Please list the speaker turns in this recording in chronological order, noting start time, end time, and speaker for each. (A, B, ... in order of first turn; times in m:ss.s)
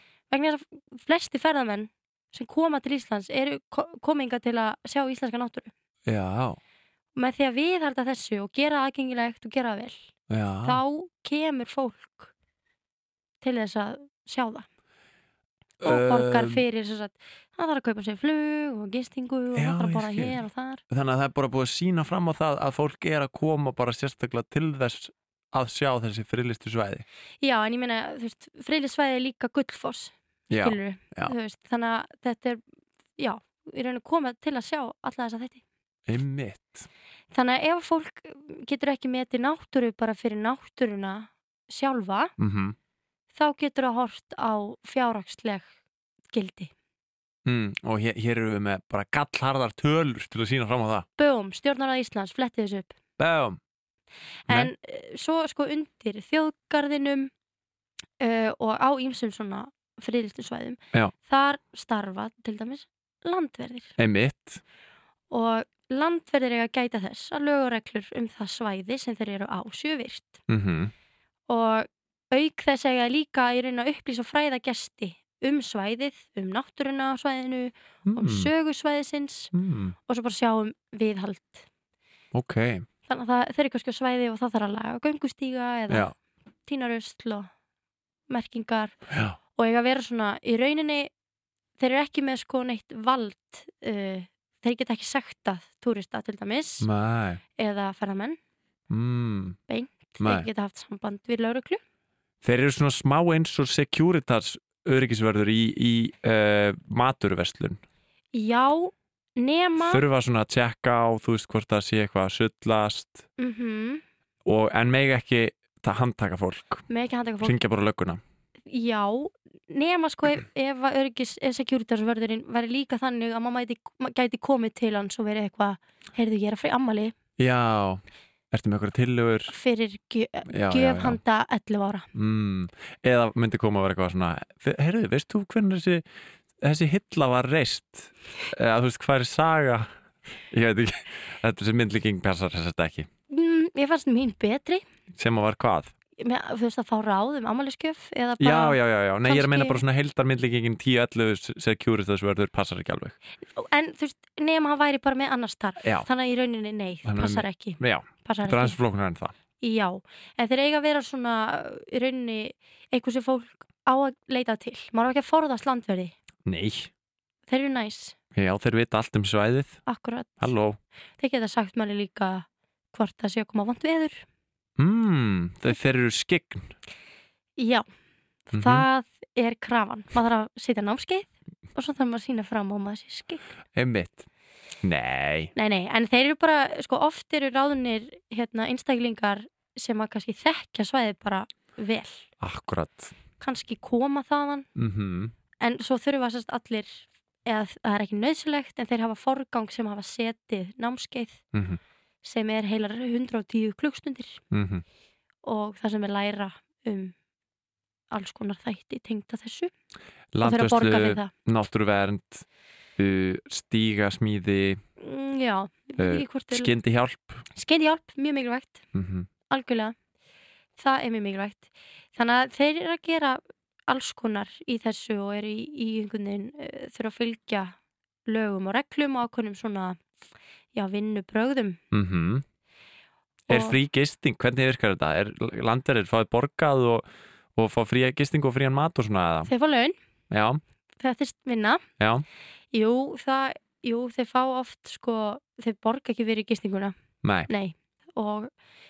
0:00.3-0:05.7 A
0:06.1-0:06.6 B
0:07.2-0:10.1 A
0:10.3-0:10.8 B
0:10.6-0:12.3 A
0:13.4-0:14.6 A
0:15.8-0:16.6 B
0:15.8-0:20.8 A
0:19.5-0:20.4 B
0:20.9-0:27.0 B
0:27.4-0:32.6 A
0:30.5-0:31.3 B
0:33.2-0:35.6 A
0:36.1-0:36.9 B
0:37.3-0:42.3 A
0:42.4-0:42.8 B
0:43.3-0:45.7 A
0:46.3-0:46.7 A
0:47.4-0:51.1 B
0:51.2-0:52.9 A
0:53.2-0:53.6 B
0:54.5-0:57.3 A
0:58.2-1:04.0 A
1:04.0-1:04.6 B
1:05.3-1:10.4 A
1:10.5-1:10.9 B
1:11.5-1:19.5 A
1:18.1-1:18.5 B
1:19.5-1:19.9 B
1:20.1-1:21.7 A
1:22.3-1:22.8 B
1:23.1-1:26.1 A
1:26.7-1:27.5 A
1:28.3-1:29.0 A
1:29.1-1:29.4 B
1:29.6-1:31.1 A
1:31.8-1:36.9 A
1:36.8-1:37.4 B
1:37.6-1:38.4 A
1:38.9-1:39.6 B
1:39.7-1:41.8 A
1:40.2-1:40.5 B
1:42.4-1:47.8 B
1:48.3-1:50.0 A
1:49.8-1:53.2 B
1:53.4-1:54.0 A
1:54.4-1:56.9 B
1:56.9-1:57.6 A
1:57.4-1:58.2 B
1:58.7-2:07.1 A
2:07.4-2:09.5 B
2:09.5-2:12.1 A
2:10.5-2:11.2 B
2:12.1-2:16.0 B
2:16.6-2:19.9 B
2:20.5-2:23.1 B
2:23.3-2:24.8 A
2:25.2-2:25.9 B
2:26.2-2:29.8 A
2:28.4-2:33.2 B
2:33.6-2:38.8 A
2:35.8-2:36.1 B
2:37.0-2:39.3 B
2:39.6-2:46.2 A
2:46.4-2:46.9 B
2:47.5-2:48.2 A
2:48.3-2:49.8 B
2:49.8-2:50.5 A
2:50.4-2:50.8 B
2:51.2-2:54.2 A
2:54.8-2:56.7 B
2:57.6-2:57.8 A
2:58.5-3:03.4 A
2:58.5-2:58.8 B
3:03.7-3:04.2 B
3:04.8-3:05.5 B
3:05.6-3:12.2 A
3:12.4-3:13.1 B
3:13.4-3:14.7 A
3:14.8-3:15.3 B
3:15.6-3:21.4 A
3:21.5-3:21.8 B
3:22.2-3:24.4 A
3:24.5-3:24.8 B
3:25.4-3:27.1 A
3:28.1-3:29.7 A
3:30.3-3:32.4 B
3:30.4-3:31.3 A
3:33.0-3:34.8 B
3:35.0-3:36.7 A
3:36.0-3:37.4 B
3:37.5-3:38.8 A
3:38.9-3:39.3 B
3:39.5-3:39.9 A
3:40.8-3:50.0 A
3:50.7-3:51.8 A
3:51.9-3:52.4 B
3:53.5-3:53.8 A
3:53.5-3:59.5 B
3:59.4-4:00.0 A
4:00.3-4:00.6 B
4:01.0-4:01.8 A
4:02.0-4:02.2 B
4:02.7-4:06.9 A
4:07.2-4:07.5 B
4:07.5-4:08.5 A